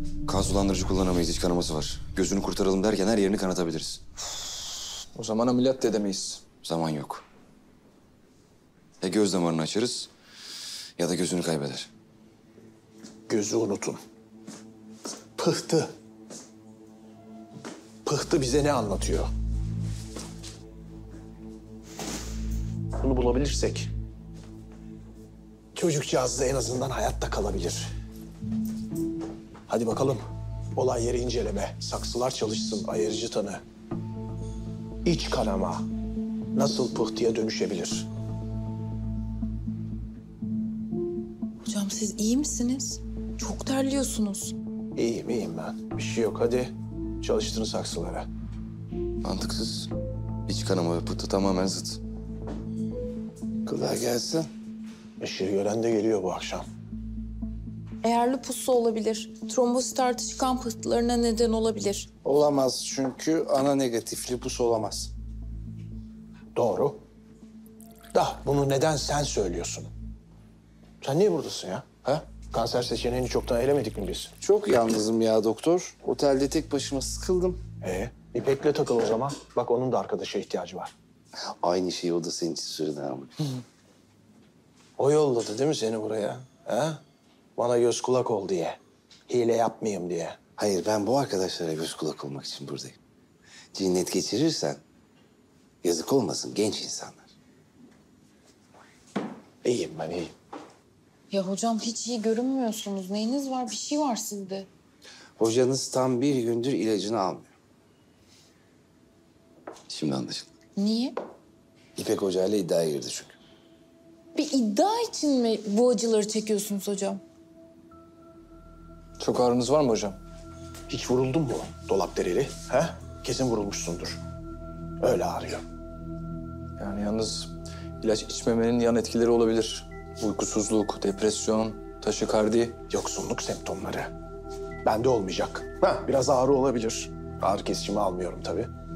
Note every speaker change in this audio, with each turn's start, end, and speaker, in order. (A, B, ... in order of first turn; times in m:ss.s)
0:00.2-0:04.0 A
0:05.1-0:06.4 B
0:06.6-0:07.2 A
0:09.0-0:10.1 A
0:11.0-0:11.9 A
0:13.3-0:14.0 C
0:15.4-0:15.9 C
0:18.0-0:19.3 C
0:23.0-0:23.9 C
0:25.8-0:27.9 C
0:29.7-0:30.2 C
0:30.8-0:33.6 C
0:35.0-0:35.9 C
0:36.5-0:38.1 C
0:41.6-0:44.5 D
0:45.0-0:48.3 C
0:49.2-0:49.9 A
0:50.5-0:52.0 A
0:53.7-0:54.5 E
0:55.2-0:56.6 C
0:58.0-1:02.1 D
1:02.2-1:05.1 E
1:06.5-1:07.0 C
1:08.1-1:09.9 C
1:11.0-1:14.3 C
1:14.4-1:17.6 E
1:17.8-1:20.9 C
1:21.6-1:23.5 E
1:25.0-1:27.0 C
1:27.6-1:30.4 C
1:30.6-1:33.0 E
1:33.7-1:34.8 E
1:35.8-1:37.3 E
1:39.6-1:40.3 C
1:41.3-1:44.7 D
1:45.4-1:47.5 E
1:49.9-1:50.5 A
1:50.8-1:51.1 D
1:52.0-1:53.4 E
1:54.3-1:57.2 D
1:59.2-2:00.2 B
2:00.9-2:04.2 C
2:05.0-2:05.6 C
2:06.8-2:12.8 B
2:12.9-2:14.1 C
2:14.8-2:18.7 C